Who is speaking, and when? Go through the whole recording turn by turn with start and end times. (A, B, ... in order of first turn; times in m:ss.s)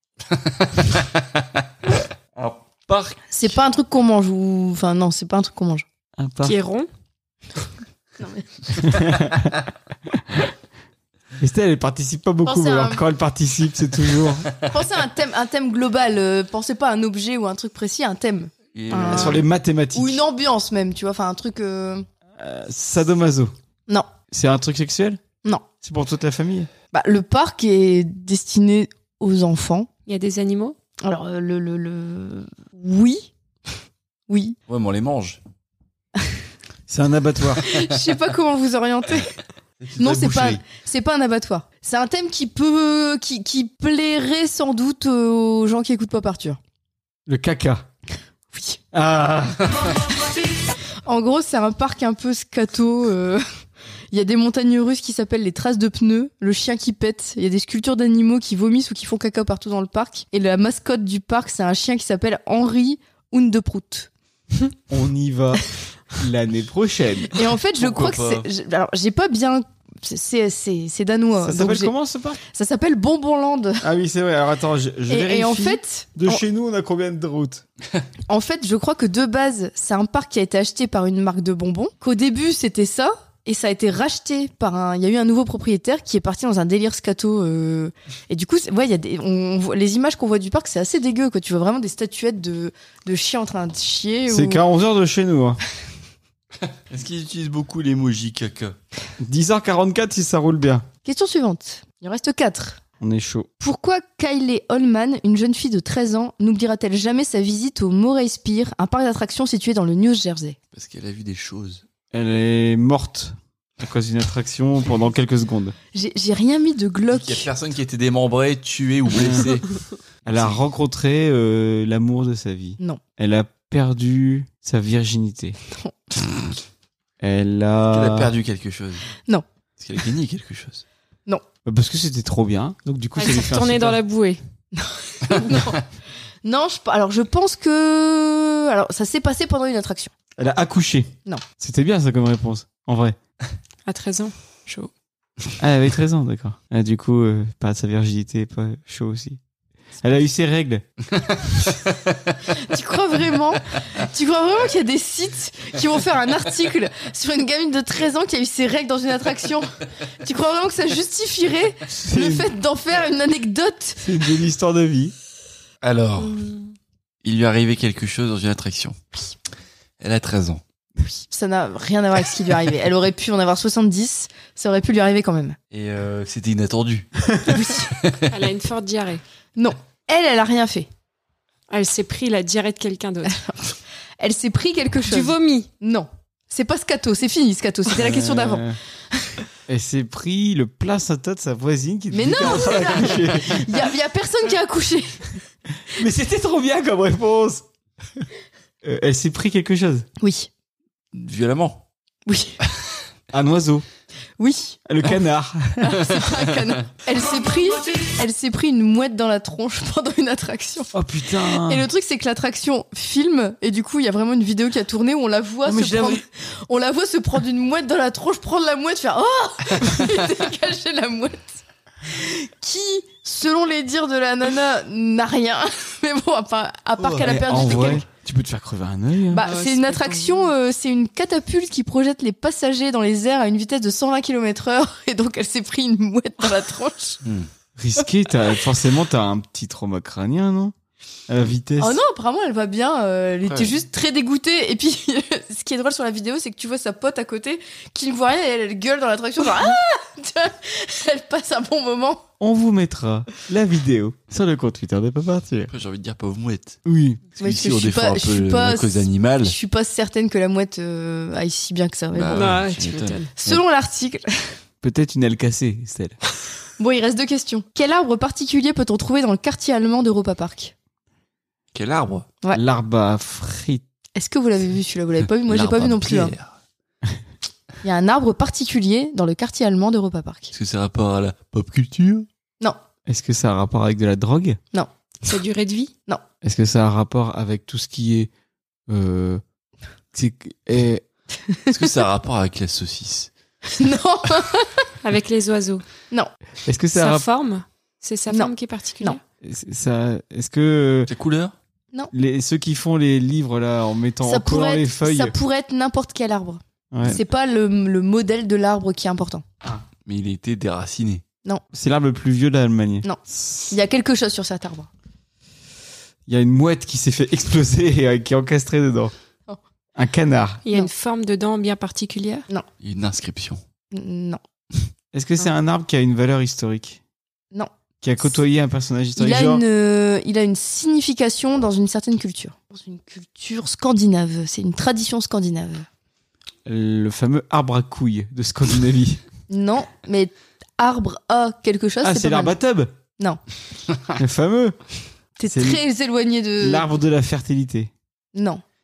0:00.4-0:01.0 A
0:02.3-0:03.2 A
0:03.3-0:05.8 B
0:06.2-0:06.6 C
0:06.4-0:06.9 D
0:08.2-0:08.5 B
0:08.8-0:09.5 C
0:10.1-0:10.4 C
0:11.4-0:14.5 C
0:12.4-0:13.0 B
0:14.6-0:22.0 B
0:18.7-0:19.4 A
0:19.0-0:20.2 C
0:22.4-0:23.5 C
0:24.3-0:25.2 C
0:25.8-0:26.7 C
0:26.9-0:29.9 B
0:30.1-0:30.8 D
0:31.0-0:33.3 B
0:34.3-0:34.6 B
0:34.7-0:35.4 A
0:36.9-0:37.6 C
0:37.6-0:39.4 B
0:39.8-0:40.6 A
0:40.0-0:46.6 B
0:47.3-0:47.8 C
0:48.5-0:48.8 B
0:48.9-0:49.8 C
0:51.0-0:53.4 B
0:54.1-1:04.1 B
1:04.9-1:07.4 C
1:07.3-1:11.9 B
1:07.8-1:08.5 A
1:11.4-1:12.4 C
1:12.5-1:13.8 B
1:13.8-1:17.6 C
1:15.1-1:16.4 B
1:18.3-1:34.6 B
1:34.3-1:35.6 C
1:36.9-1:38.8 A
1:39.2-1:40.9 C
1:41.0-1:42.8 B
1:43.0-1:43.5 C
1:43.6-1:50.6 B
1:50.7-1:51.8 A
1:52.1-1:55.7 C
1:55.9-1:57.5 B
1:57.1-1:59.7 A
1:59.1-1:59.5 C
2:00.2-2:05.6 C
2:00.3-2:00.6 A
2:07.2-2:08.3 C
2:07.9-2:09.1 A
2:09.8-2:10.8 A
2:11.6-2:14.0 C
2:13.2-2:14.4 D
2:14.7-2:15.9 B
2:16.4-2:20.1 B
2:20.4-2:23.2 C
2:23.8-2:24.9 D
2:25.6-2:29.4 C
2:30.0-2:30.8 C
2:32.4-2:44.1 B
2:41.9-2:42.5 C
2:44.0-2:45.1 C
2:45.8-2:46.4 A
2:47.2-2:49.0 A
2:50.0-2:50.6 A
2:51.2-2:55.6 B
2:55.7-2:58.3 A
2:57.4-2:57.9 B
2:58.3-2:59.2 D
2:59.6-3:00.9 B
3:01.7-3:03.4 D
3:03.2-3:09.4 B
3:05.1-3:05.7 D
3:07.9-3:08.8 C
3:09.7-3:13.8 C
3:12.1-3:15.3 B
3:15.9-3:17.6 C
3:18.8-3:20.1 C
3:20.2-3:20.5 B
3:21.1-3:21.8 A
3:22.3-3:22.6 B
3:23.3-3:23.8 C
3:24.4-3:24.8 B
3:24.8-3:26.1 C
3:25.8-3:30.9 B
3:30.9-3:31.9 C
3:31.5-3:48.0 B
3:35.6-3:36.2 C
3:47.0-3:48.0 A
3:47.2-3:49.4 C
3:49.3-3:57.2 B
3:49.3-3:50.5 D
3:57.8-4:00.7 C
4:01.3-4:02.0 C
4:01.8-4:12.2 B
4:03.5-4:03.7 A
4:12.4-4:15.7 C
4:15.7-4:16.8 A
4:16.8-4:17.2 C
4:17.3-4:19.5 A
4:17.4-4:22.6 B
4:22.1-4:23.6 A
4:22.3-4:23.3 D
4:23.4-4:24.6 B
4:24.8-4:26.2 C
4:26.8-4:30.7 B
4:31.7-4:32.3 A
4:32.5-4:33.8 C
4:34.2-4:36.3 B
4:35.5-4:36.5 A
4:37.8-4:40.5 B
4:40.5-4:42.3 A
4:43.1-4:44.6 C
4:45.2-4:45.9 D
4:46.4-4:48.3 C
4:48.9-4:49.4 C
4:50.1-4:51.0 C
4:51.5-4:51.9 B
4:51.7-4:53.3 A
4:53.6-4:54.9 B
4:55.0-4:55.8 D
4:56.6-4:57.2 C
4:56.9-4:59.2 D
4:58.3-4:59.2 B
4:59.4-5:01.1 C
5:01.1-5:01.5 A
5:02.1-5:05.3 C
5:04.2-5:09.4 B
5:06.9-5:07.2 C
5:10.0-5:11.2 A
5:11.7-5:13.6 C
5:13.0-5:14.9 B
5:16.3-5:19.1 C
5:20.0-5:20.6 C
5:20.6-5:22.4 D
5:22.8-5:23.6 A
5:23.9-5:24.4 B
5:25.1-5:27.0 C
5:28.0-5:29.6 C
5:29.2-5:35.8 B
5:36.6-5:39.2 C
5:39.5-5:42.6 B
5:42.0-5:42.9 C
5:44.2-5:44.8 C
5:45.4-5:46.8 B
5:45.4-5:45.8 C
5:46.6-5:47.9 C
5:48.3-5:48.6 B